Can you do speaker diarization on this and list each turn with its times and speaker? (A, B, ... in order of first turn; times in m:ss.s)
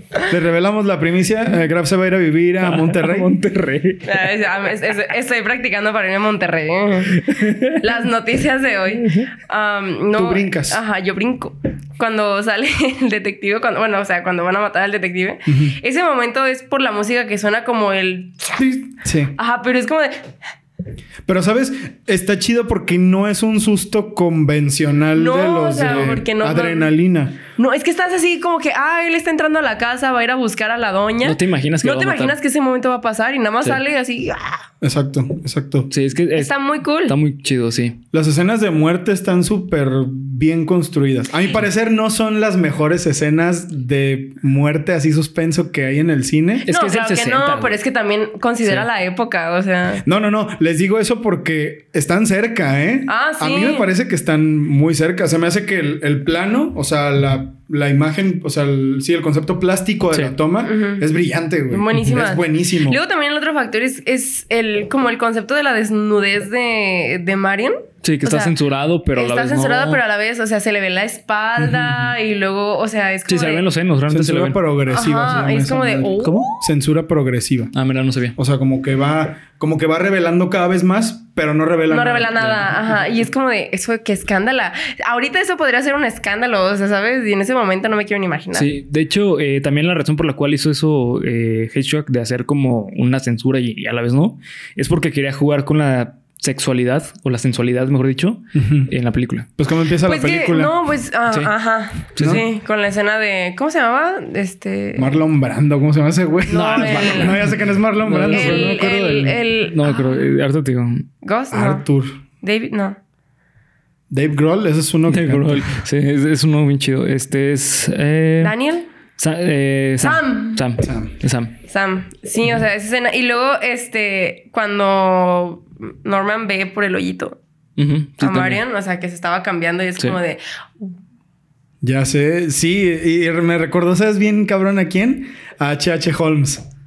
0:00.3-0:03.3 A
0:02.6-0:04.3 B
0:04.0-0:18.6 C
0:07.1-0:07.8 B
0:10.1-0:10.8 A
0:15.5-0:15.8 A
0:18.6-0:19.3 A
0:19.4-0:20.4 C
0:21.2-0:27.4 A
0:25.2-0:26.9 C
0:25.8-0:26.2 B
0:27.6-0:34.7 C
0:31.2-0:32.4 B
0:34.8-0:35.9 A
0:35.9-0:38.0 B
0:36.4-0:37.2 C
0:38.1-0:46.7 A
0:46.6-0:50.0 C
0:46.7-0:47.8 B
0:50.0-1:03.0 A
0:53.1-0:53.9 C
1:00.6-1:01.1 C
1:01.7-1:08.5 C
1:08.0-1:10.0 B
1:09.1-1:13.6 C
1:13.3-1:14.6 B
1:14.1-1:17.7 A
1:14.9-1:16.6 C
1:16.2-1:16.5 B
1:17.7-1:18.4 B
1:18.4-1:22.5 A
1:21.9-1:28.7 C
1:22.4-1:22.7 B
1:28.5-1:39.5 B
1:38.5-1:38.9 A
1:39.6-1:40.7 A
1:40.0-1:45.1 C
1:42.1-1:42.4 B
1:42.2-1:42.4 A
1:45.0-1:49.4 A
1:46.5-1:47.4 C
1:46.5-1:48.8 B
1:48.3-1:50.4 C
1:49.6-1:51.1 B
1:51.2-1:51.8 C
1:51.5-1:52.2 A
1:52.4-1:53.0 C
1:54.1-1:55.8 A
1:55.1-1:58.5 B
1:58.4-1:58.8 C
1:59.2-2:01.5 B
2:00.0-2:00.7 C
2:00.8-2:01.1 A
2:01.7-2:07.4 C
2:07.8-2:08.6 B
2:08.2-2:11.0 C
2:11.8-2:16.6 A